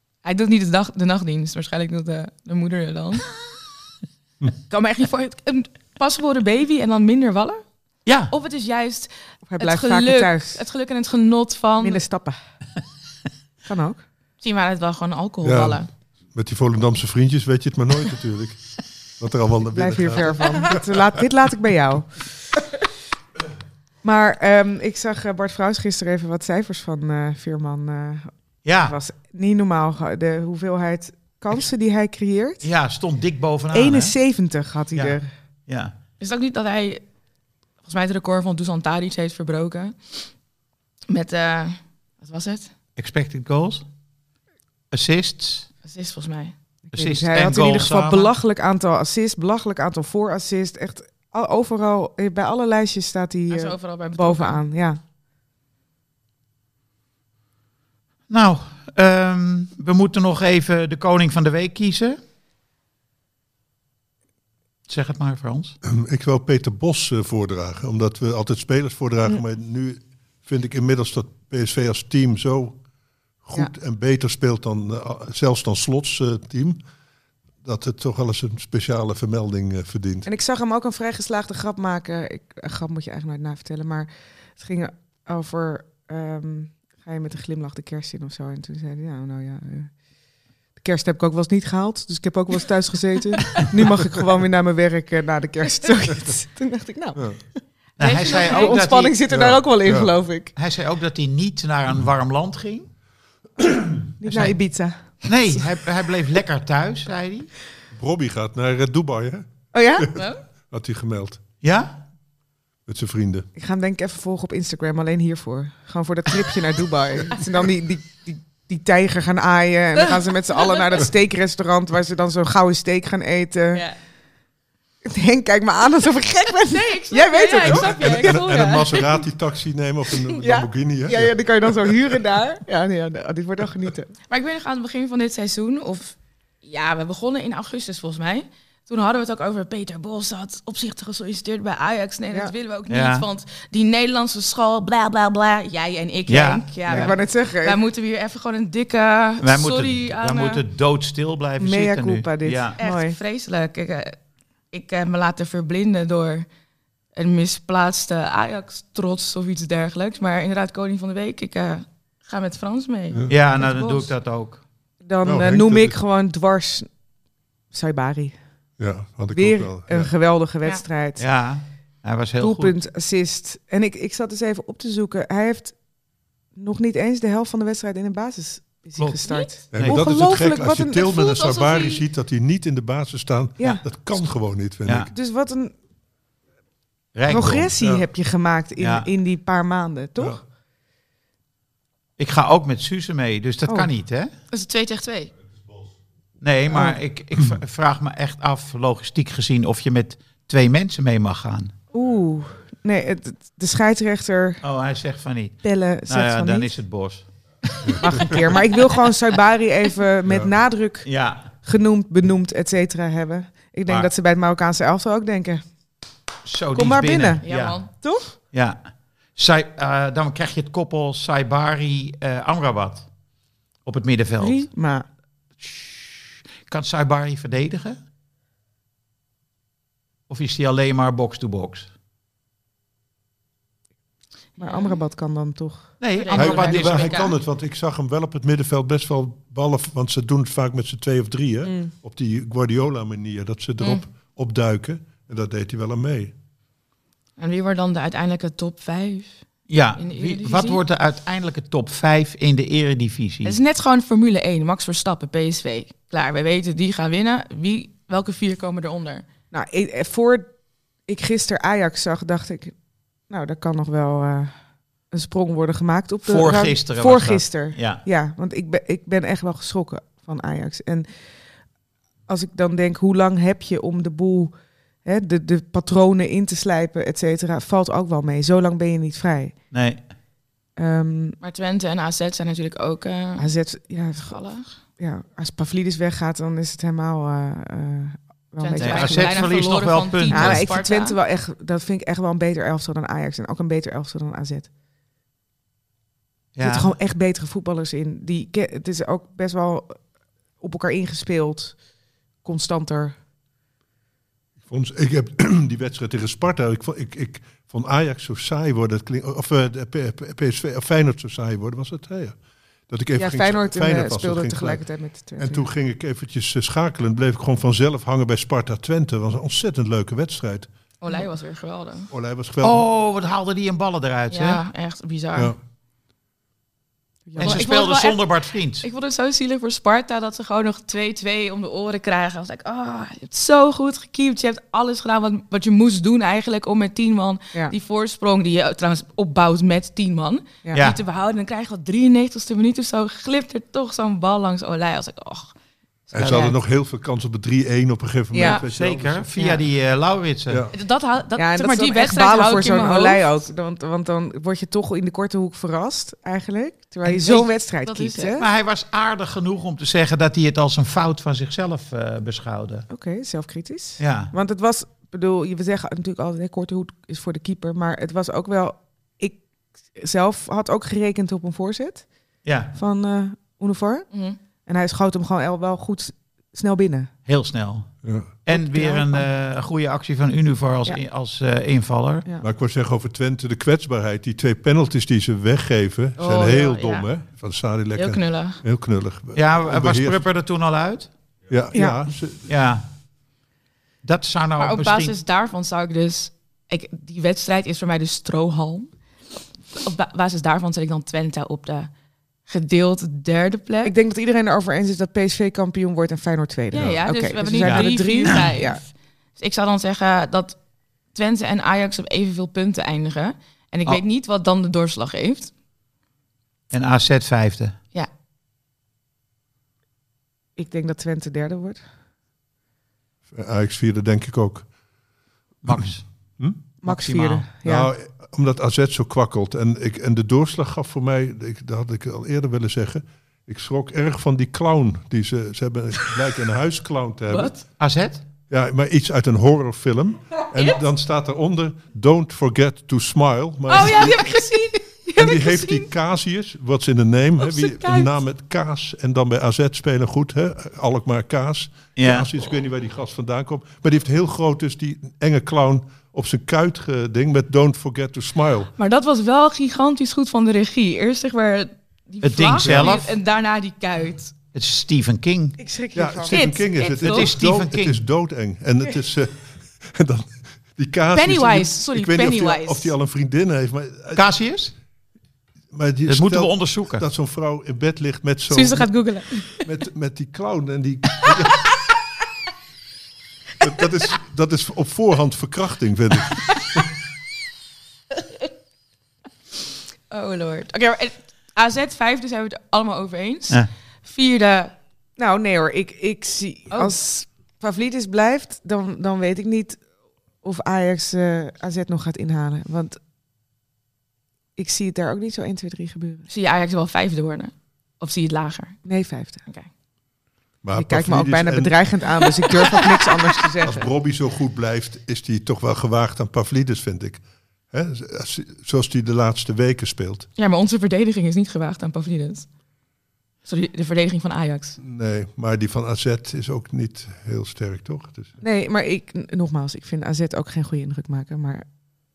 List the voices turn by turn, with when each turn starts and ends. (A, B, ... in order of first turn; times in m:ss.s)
0:00.2-0:03.2 A
0:04.7-0:07.6 A
0:08.0-0:08.3 B
0:08.3-0:12.0 A
0:09.5-0:10.6 C
0:11.8-0:12.4 C
0:13.6-0:14.0 C
0:14.4-0:15.9 A
0:15.4-0:15.8 D
0:16.3-0:18.6 D
0:19.2-0:21.1 D
0:19.7-0:22.2 C
0:24.0-0:28.3 C
0:28.6-0:29.0 B
0:28.8-0:32.6 C
0:32.6-0:34.1 B
0:33.7-0:35.3 C
0:35.7-0:35.9 B
0:36.2-0:37.0 A
0:37.8-0:40.3 A
0:41.1-0:42.7 A
0:43.0-0:43.8 B
0:44.9-0:45.7 B
0:45.8-0:46.5 A
0:46.9-0:55.0 C
0:46.9-0:48.3 B
0:53.5-0:54.6 A
0:58.3-1:02.2 B
1:04.9-1:05.7 B
1:05.8-1:12.8 D
1:13.4-1:16.8 D
1:17.6-1:20.3 D
1:20.2-1:29.9 C
1:30.8-1:37.6 C
1:38.0-1:38.8 A
1:38.0-1:39.2 B
1:38.2-1:40.5 C
1:39.3-1:40.1 D
1:40.5-1:42.9 B
1:43.6-1:44.0 D
1:44.2-1:45.6 C
1:44.2-1:44.6 B
1:45.2-1:47.5 B
1:47.9-1:51.4 D
1:49.7-1:50.1 C
1:50.1-1:50.4 A
1:51.6-1:52.0 B
1:52.8-1:53.5 D
1:53.6-2:03.8 C
2:05.0-2:08.7 C
2:06.7-2:09.2 A
2:07.6-2:12.1 D
2:10.4-2:14.1 C
2:14.3-2:30.6 A
2:22.9-2:23.2 B
2:26.3-2:27.1 B
2:26.9-2:27.8 C
2:29.4-2:32.8 B
2:31.6-2:33.2 C
2:32.8-2:34.2 A
2:34.7-2:36.5 A
2:37.1-2:44.1 A
2:43.3-2:44.6 B
2:45.0-2:46.9 C
2:45.2-2:46.0 D
2:47.7-2:48.4 C
2:48.8-2:50.1 D
2:49.3-2:51.2 C
2:51.2-2:52.8 B
2:52.4-2:55.8 C
2:56.5-3:01.1 C
2:59.7-3:05.1 D
2:59.7-3:00.0 B
3:01.0-3:02.0 A
3:05.1-3:05.7 C
3:07.1-3:07.7 B
3:07.3-3:10.4 C
3:07.8-3:08.1 D
3:08.8-3:09.1 B
3:12.2-3:14.3 B
3:14.5-3:15.3 A
3:16.4-3:21.7 B
3:16.7-3:17.0 C
3:21.9-3:24.6 C
3:24.6-3:29.0 B
3:25.6-3:26.7 C
3:27.8-3:28.5 D
3:28.0-3:35.6 C
3:30.3-3:30.5 D
3:31.0-3:31.5 B
3:36.4-3:38.8 B
3:36.7-3:37.4 C
3:37.4-3:37.9 A
3:37.9-3:38.3 C
3:39.3-3:43.1 B
3:43.8-3:44.7 B
3:44.4-3:45.0 C
3:45.6-3:48.0 B
3:50.3-3:51.9 B
3:54.6-3:56.0 C
3:54.6-3:55.0 A
3:56.0-3:57.2 B
3:56.2-3:57.3 A
3:56.3-4:06.3 D
4:01.6-4:01.9 C
4:03.8-4:04.0 A
4:07.4-4:09.4 A
4:09.7-4:13.6 B
4:10.0-4:10.8 A
4:13.4-4:19.2 A
4:19.5-4:20.5 C
4:21.0-4:22.7 C
4:23.3-4:24.6 C
4:25.1-4:31.1 C
4:26.2-4:28.0 B
4:32.3-4:34.5 C
4:35.0-4:39.5 C
4:39.7-4:40.0 B
4:40.8-4:41.4 C
4:41.4-4:43.5 A
4:43.4-4:44.4 C
4:44.3-4:44.7 A
4:45.0-4:49.5 C
4:48.6-4:51.2 A
4:48.8-4:50.7 B
4:50.3-4:54.7 C
4:56.6-4:56.9 B
4:56.6-5:00.0 C
5:00.6-5:01.8 C
5:02.4-5:03.1 C
5:04.6-5:12.4 D
5:12.9-5:14.8 D
5:13.2-5:15.7 C
5:15.4-5:20.7 D
5:21.0-5:22.1 A
5:22.1-5:22.8 D
5:22.6-5:24.6 B
5:24.3-5:25.5 A
5:27.3-5:27.7 C
5:27.4-5:45.5 A
5:27.4-5:28.8 B
5:40.7-5:41.0 B
5:46.1-5:49.3 D
5:46.2-5:46.5 B
5:46.2-5:46.5 A
5:48.3-5:48.6 C
5:48.7-5:50.7 B
5:50.7-5:53.3 A
5:51.4-5:58.5 C
5:57.0-5:58.4 A
5:58.4-6:02.9 B
6:02.9-6:09.4 C
6:04.0-6:04.3 B
6:10.0-6:12.1 C
6:12.4-6:12.7 B
6:12.7-6:14.1 C
6:14.1-6:14.4 A
6:14.6-6:17.1 C
6:17.3-6:17.9 B
6:18.0-6:18.3 D
6:18.4-6:22.2 B
6:18.5-6:19.2 C
6:22.4-6:30.2 D
6:26.2-6:27.1 A
6:27.9-6:28.6 A
6:29.3-6:31.1 B
6:31.5-6:32.5 D
6:31.7-6:32.0 C
6:32.5-6:32.9 B
6:34.0-6:35.2 B
6:34.6-6:38.9 A
6:39.7-6:41.9 A
6:42.5-6:43.9 A
6:43.8-6:48.8 C
6:46.7-6:50.6 A
6:47.6-6:48.4 B
6:51.1-6:55.5 A
6:56.7-6:57.7 B
7:00.6-7:01.8 C
7:03.3-7:04.7 D
7:05.6-7:06.0 B
7:06.8-7:07.9 C
7:06.8-7:07.4 B
7:07.6-7:17.5 D
7:17.3-7:17.6 A
7:17.8-7:18.2 B
7:18.5-7:24.4 D
7:23.7-7:25.9 A
7:25.2-7:38.7 D
7:27.4-7:28.2 A
7:32.0-7:32.3 B
7:38.8-7:44.3 A
7:42.2-7:43.2 B
7:42.6-7:43.0 D
7:44.5-7:45.6 B
7:45.6-7:46.5 C
7:45.9-7:54.2 D
7:46.3-7:47.3 A
7:47.0-7:48.0 B
7:51.1-7:52.9 A
7:54.1-7:54.7 B
7:55.7-7:58.9 D
7:56.1-7:57.0 B
7:58.5-7:59.6 A
7:59.6-8:01.7 D
8:03.6-8:06.9 D
8:10.1-8:14.7 A
8:15.2-8:19.8 C
8:20.4-8:23.0 C
8:24.6-8:26.2 C
8:26.3-8:28.8 A
8:28.8-8:29.4 C
8:30.6-8:31.8 D
8:30.7-8:33.9 C
8:33.6-8:40.3 D
8:40.4-8:42.5 A
8:43.4-8:44.8 A
8:44.8-8:48.4 D
8:48.4-8:51.6 C